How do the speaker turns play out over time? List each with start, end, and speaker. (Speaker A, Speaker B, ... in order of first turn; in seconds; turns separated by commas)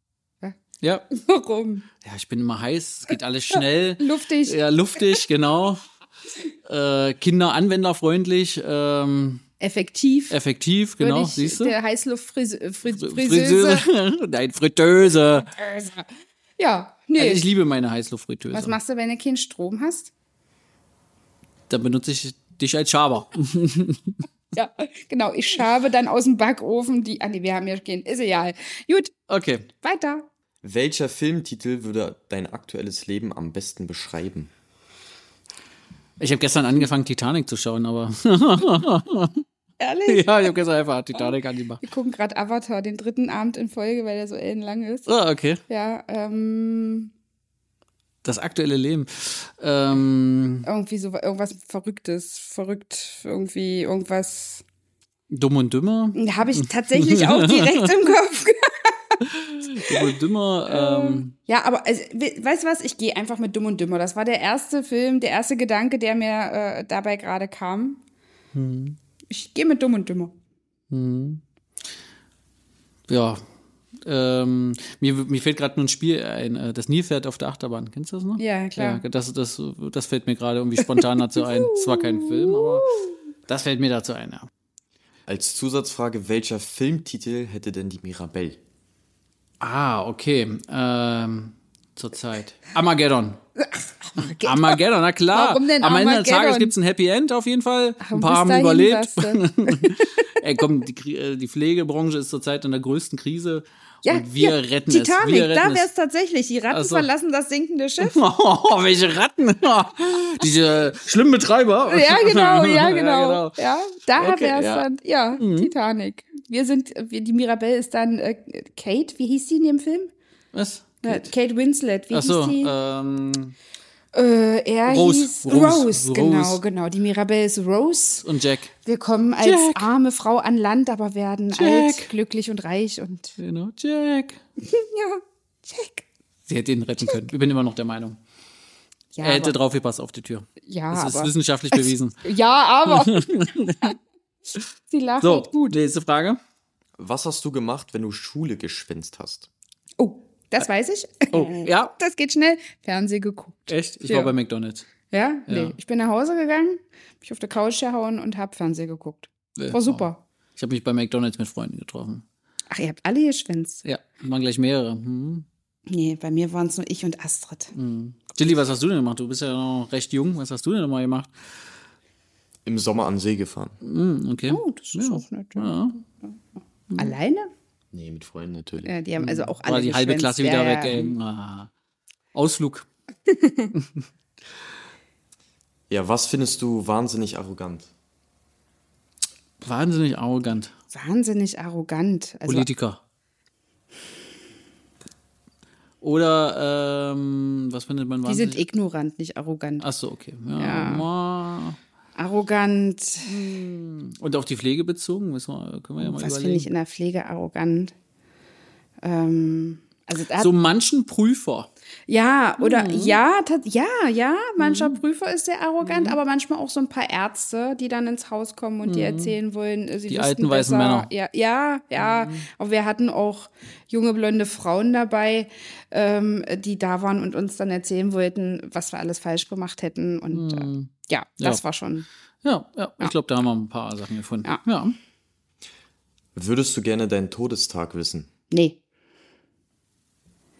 Speaker A: 0.8-1.1, Speaker B: 1.1-1.9, Speaker A: 2.0-5.8, Speaker B: 3.5-4.6, Speaker A: 6.7-9.4, Speaker B: 9.6-10.4, Speaker A: 10.3-11.7, Speaker B: 11.0-13.8, Speaker A: 13.0-15.5, Speaker B: 15.5-17.4, Speaker A: 17.2-18.8, Speaker B: 18.5-20.1, Speaker A: 21.7-24.2, Speaker B: 24.5-29.1, Speaker A: 29.3-29.7, Speaker B: 29.8-30.3, Speaker C: 30.6-34.5, Speaker A: 36.2-39.4, Speaker B: 39.8-40.5, Speaker A: 40.1-41.8, Speaker B: 41.1-45.1, Speaker A: 45.1-45.6, Speaker B: 45.7-47.1, Speaker A: 48.2-50.7, Speaker B: 50.6-54.6, Speaker A: 55.3-58.1, Speaker B: 56.1-59.2, Speaker A: 59.2-61.3, Speaker B: 59.8-60.1, Speaker B: 60.7-68.0, Speaker A: 68.5-69.0, Speaker B: 69.3-70.3, Speaker A: 70.9-71.4, Speaker A: 73.1-73.4, Speaker A: 74.0-82.9, Speaker B: 78.4-79.0, Speaker B: 81.0-83.1, Speaker A: 83.5-84.5, Speaker C: 85.3-88.6, Speaker A: 89.6-93.4, Speaker B: 93.6-94.8, Speaker A: 94.3-105.9, Speaker B: 95.3-96.7, Speaker B: 98.0-100.1, Speaker B: 104.0-108.2, Speaker A: 106.7-107.1, Speaker A: 108.0-113.5, Speaker B: 111.9-120.1, Speaker A: 114.2-114.8, Speaker A: 115.4-115.7, Speaker A: 120.5-121.3, Speaker B: 121.0-122.7, Speaker A: 122.1-123.5, Speaker B: 124.1-128.2, Speaker A: 124.8-126.6, Speaker A: 128.2-128.7, Speaker B: 128.8-133.4, Speaker A: 129.4-129.9, Speaker A: 131.5-132.1, Speaker A: 133.4-134.4, Speaker B: 134.6-136.0, Speaker A: 136.5-138.2, Speaker B: 139.1-139.5, Speaker A: 139.2-142.2, Speaker B: 140.6-143.9, Speaker A: 142.8-143.9, Speaker B: 144.9-145.8, Speaker A: 145.2-146.4, Speaker C: 147.0-149.5, Speaker B: 150.0-154.3, Speaker A: 151.3-151.9, Speaker A: 153.7-154.9, Speaker B: 155.1-160.2, Speaker A: 155.5-155.7, Speaker A: 159.6-160.0, Speaker A: 160.6-162.2, Speaker B: 162.7-163.8, Speaker A: 163.8-165.4, Speaker B: 165.9-167.7, Speaker A: 167.7-171.3, Speaker C: 172.6-173.8, Speaker A: 173.8-176.0, Speaker B: 174.5-176.3, Speaker B: 176.9-177.5, Speaker C: 177.9-178.9, Speaker B: 178.8-181.1, Speaker A: 179.2-181.7, Speaker A: 182.3-182.8, Speaker B: 183.3-183.7, Speaker C: 185.9-187.9, Speaker A: 189.6-190.7, Speaker B: 190.9-192.7, Speaker A: 192.5-193.0, Speaker A: 196.0-198.6, Speaker B: 198.2-199.8, Speaker A: 199.8-201.8, Speaker B: 200.6-201.1, Speaker B: 202.2-203.4, Speaker A: 203.2-206.7, Speaker B: 206.0-207.9, Speaker B: 209.0-210.5, Speaker A: 210.4-211.7, Speaker B: 212.1-232.1, Speaker A: 212.6-213.2, Speaker A: 214.6-215.0, Speaker A: 215.8-216.2, Speaker A: 218.8-219.3, Speaker A: 220.1-221.1, Speaker A: 222.0-222.4, Speaker A: 230.3-231.6, Speaker A: 232.4-234.9, Speaker C: 236.3-238.3, Speaker B: 238.5-238.8